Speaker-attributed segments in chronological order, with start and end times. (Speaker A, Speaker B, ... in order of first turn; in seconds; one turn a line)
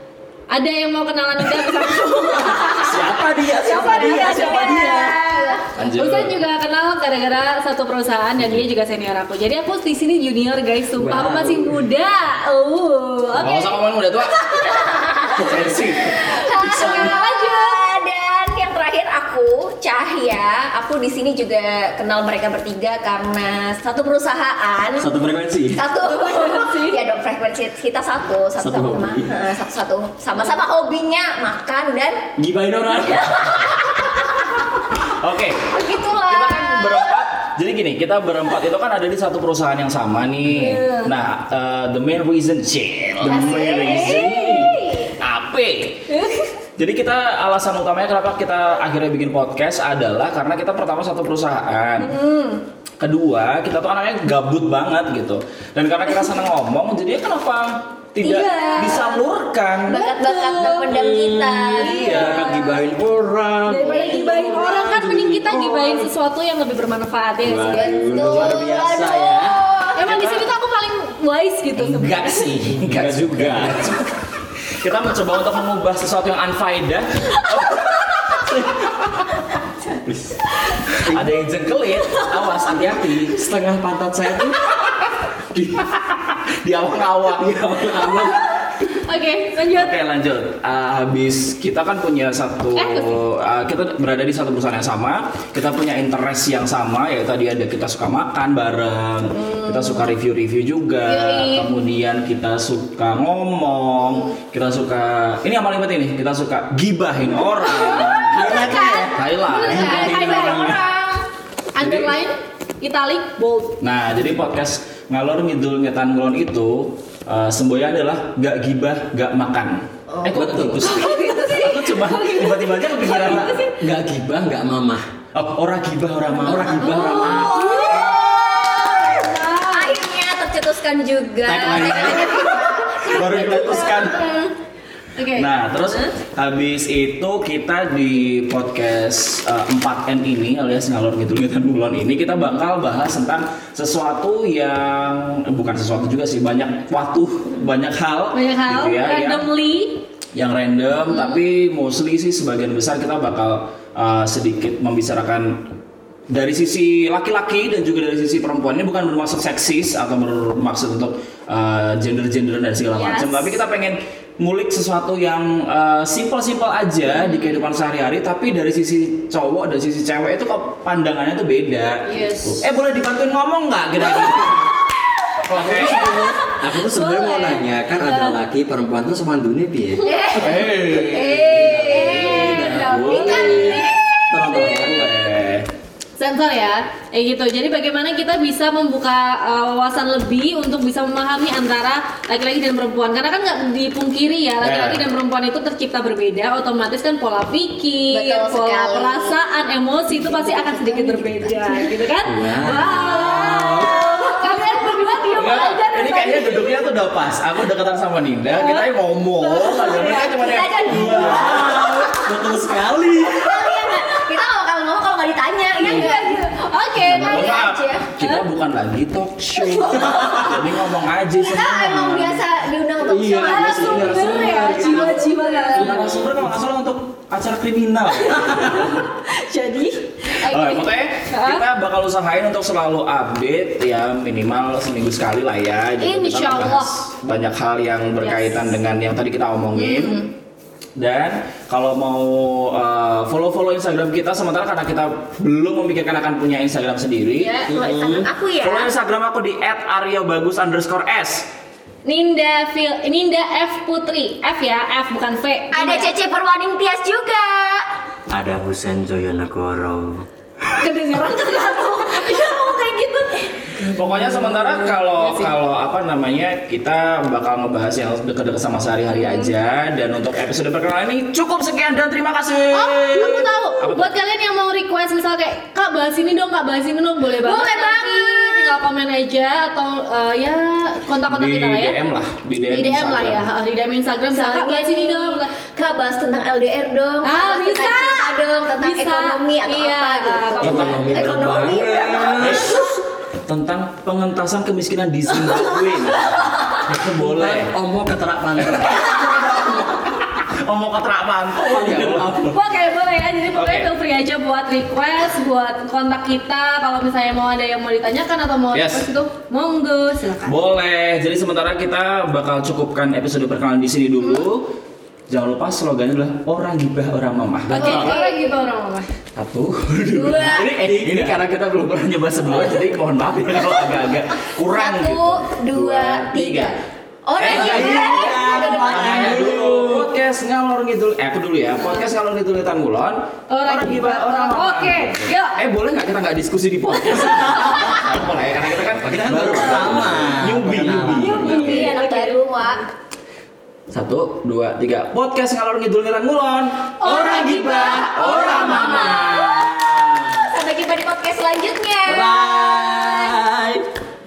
Speaker A: 0.5-13.8
Speaker B: 2.4-5.2
Speaker C: 3.7-5.6
Speaker D: 5.7-6.3
Speaker B: 11.0-11.8
Speaker D: 13.3-14.6
Speaker C: 14.4-25.1
Speaker D: 15.3-16.2
Speaker B: 15.4-15.9
Speaker A: 16.6-17.9
Speaker B: 16.8-17.1
Speaker B: 25.0-25.8
Speaker C: 25.7-32.3
Speaker A: 26.0-27.0
Speaker B: 28.6-29.3
Speaker B: 32.4-33.6
Speaker C: 33.2-34.1
Speaker D: 35.0-46.1
Speaker C: 35.7-37.2
Speaker A: 40.5-41.1
Speaker C: 43.2-45.1
Speaker B: 43.3-43.5
Speaker D: 46.8-52.1
Speaker C: 52.1-52.6
Speaker D: 53.0-60.0
Speaker C: 58.2-59.2
Speaker A: 58.3-59.0
Speaker C: 59.9-62.4
Speaker A: 59.9-61.2
Speaker B: 60.6-66.1
Speaker A: 61.8-62.7
Speaker D: 62.0-62.6
Speaker A: 63.6-68.6
Speaker C: 63.8-64.5
Speaker B: 67.4-69.6
Speaker C: 67.6-70.0
Speaker A: 69.9-72.5
Speaker D: 70.0-70.5
Speaker D: 71.8-74.1
Speaker B: 72.7-74.0
Speaker D: 74.8-78.5
Speaker B: 78.4-78.9
Speaker B: 79.9-80.4
Speaker D: 80.9-83.4
Speaker B: 83.3-84.7
Speaker D: 85.7-88.4
Speaker B: 87.4-88.4
Speaker A: 88.8-90.0
Speaker D: 89.7-110.3
Speaker A: 92.8-93.2
Speaker A: 99.3-100.1
Speaker A: 101.0-101.7
Speaker A: 107.6-113.8
Speaker B: 108.3-110.8
Speaker D: 111.8-112.1
Speaker D: 113.8-123.6
Speaker B: 120.3-120.8
Speaker A: 120.8-123.7
Speaker B: 123.8-125.0
Speaker D: 125.3-127.5
Speaker A: 126.3-130.0
Speaker B: 126.4-127.8
Speaker C: 127.2-134.3
Speaker B: 131.4-132.6
Speaker D: 131.7-132.0
Speaker A: 132.9-134.4
Speaker D: 133.0-134.3
Speaker A: 135.2-136.1
Speaker D: 135.3-149.4
Speaker A: 148.3-150.0
Speaker D: 150.3-155.6
Speaker D: 156.3-174.7
Speaker A: 162.9-163.5
Speaker A: 167.1-167.6
Speaker A: 172.0-172.6
Speaker D: 175.4-176.2
Speaker B: 175.5-185.1
Speaker A: 176.8-178.4
Speaker C: 180.0-182.6
Speaker D: 180.4-183.8
Speaker A: 181.9-183.9
Speaker C: 183.1-183.7
Speaker D: 184.3-185.7
Speaker A: 186.2-206.9
Speaker D: 194.6-195.0
Speaker C: 198.1-199.4
Speaker C: 200.1-201.9
Speaker B: 202.2-204.0
Speaker C: 203.2-205.2
Speaker D: 205.3-211.6
Speaker A: 208.5-208.9
Speaker A: 209.4-210.7
Speaker C: 210.0-212.1
Speaker B: 210.9-213.7
Speaker C: 213.2-218.1
Speaker A: 215.8-217.6
Speaker D: 217.1-222.4
Speaker A: 219.6-220.0
Speaker B: 219.7-220.1
Speaker C: 219.8-220.5
Speaker C: 221.3-225.9
Speaker B: 223.0-225.2
Speaker A: 223.4-226.1
Speaker D: 225.7-229.0
Speaker B: 225.8-226.1
Speaker A: 228.1-231.6
Speaker D: 230.4-240.2
Speaker A: 236.0-237.0
Speaker A: 238.2-238.7
Speaker A: 239.8-240.2
Speaker D: 241.0-247.6
Speaker A: 247.4-247.7
Speaker C: 247.7-248.9
Speaker B: 247.7-248.3
Speaker D: 248.6-251.5
Speaker A: 252.0-256.1
Speaker C: 255.7-257.9
Speaker B: 258.3-260.2
Speaker A: 260.7-265.5
Speaker D: 263.9-274.1
Speaker A: 269.1-269.5
Speaker A: 272.7-282.0
Speaker C: 277.2-278.8
Speaker D: 281.3-283.4
Speaker A: 282.7-285.5
Speaker C: 284.3-292.9
Speaker A: 287.2-291.0
Speaker D: 290.6-291.3
Speaker B: 290.6-292.8
Speaker D: 292.3-292.8
Speaker D: 293.4-297.7
Speaker B: 297.0-299.1
Speaker D: 298.6-302.4
Speaker B: 301.6-302.6
Speaker A: 302.4-310.5
Speaker D: 303.5-303.9
Speaker D: 308.7-309.0
Speaker D: 310.4-314.7
Speaker D: 315.3-318.2
Speaker A: 317.7-319.1
Speaker C: 317.7-318.5
Speaker D: 319.4-326.8
Speaker B: 320.1-321.4
Speaker C: 324.7-326.7
Speaker C: 327.2-329.6
Speaker D: 327.4-328.2
Speaker B: 327.4-330.1
Speaker D: 328.8-341.9
Speaker A: 333.5-335.6
Speaker A: 337.3-338.0
Speaker B: 339.0-341.8
Speaker A: 341.1-342.7
Speaker C: 341.3-342.8
Speaker D: 343.9-346.9
Speaker B: 347.0-350.4
Speaker C: 347.0-353.4
Speaker A: 347.0-349.0
Speaker D: 348.1-349.4
Speaker B: 352.1-353.8